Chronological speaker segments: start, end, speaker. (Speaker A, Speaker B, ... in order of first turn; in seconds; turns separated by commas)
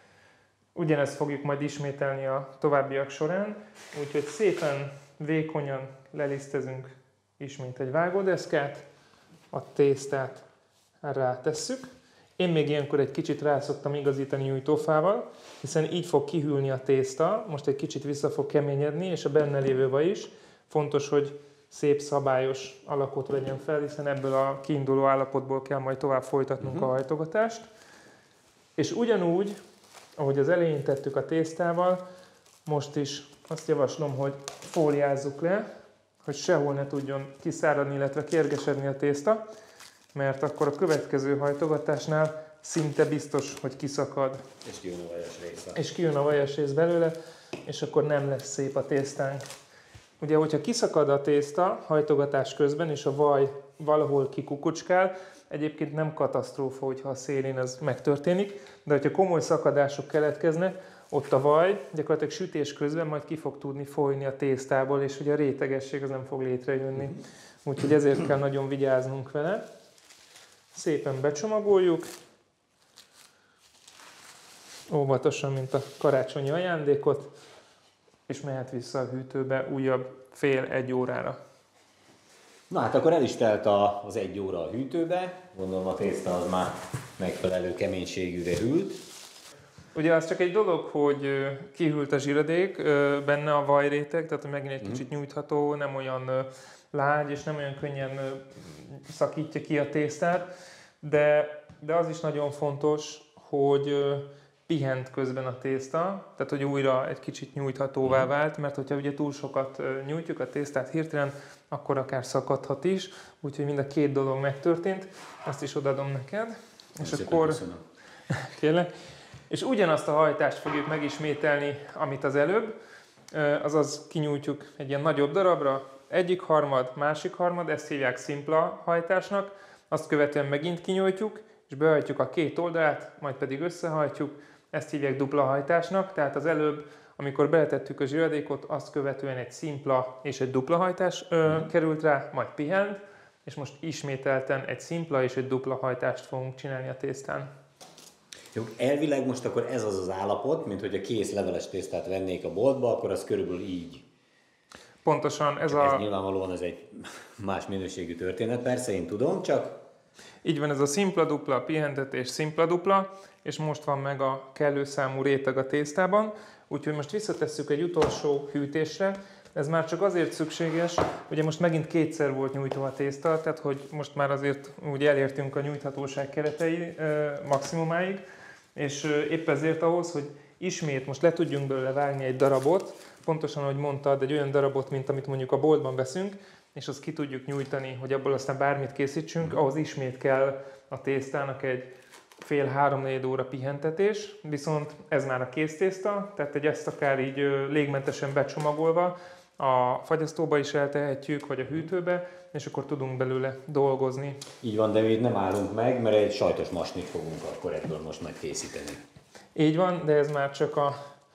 Speaker A: 0.8-8.8, Speaker A: 9.5-10.4, Speaker A: 11.0-11.9, Speaker A: 12.4-27.6, Speaker B: 26.6-26.9, Speaker A: 28.8-29.6, Speaker A: 30.2-32.0, Speaker A: 32.7-35.6, Speaker A: 36.2-39.4, Speaker A: 40.1-44.4, Speaker B: 44.6-45.8, Speaker A: 45.8-49.4, Speaker A: 50.2-69.6, Speaker A: 70.7-72.1, Speaker A: 74.9-77.3, Speaker A: 78.3-81.4, Speaker B: 82.7-89.0, Speaker A: 89.9-100.5, Speaker A: 101.0-117.6, Speaker B: 117.0-117.8, Speaker A: 118.3-118.9, Speaker A: 119.5-122.7, Speaker A: 123.3-147.5, Speaker B: 148.5-154.1, Speaker A: 155.0-156.1, Speaker B: 155.7-159.8, Speaker A: 160.4-178.2, Speaker A: 178.8-191.9, Speaker A: 192.4-204.4, Speaker B: 204.6-209.0, Speaker A: 209.6-210.9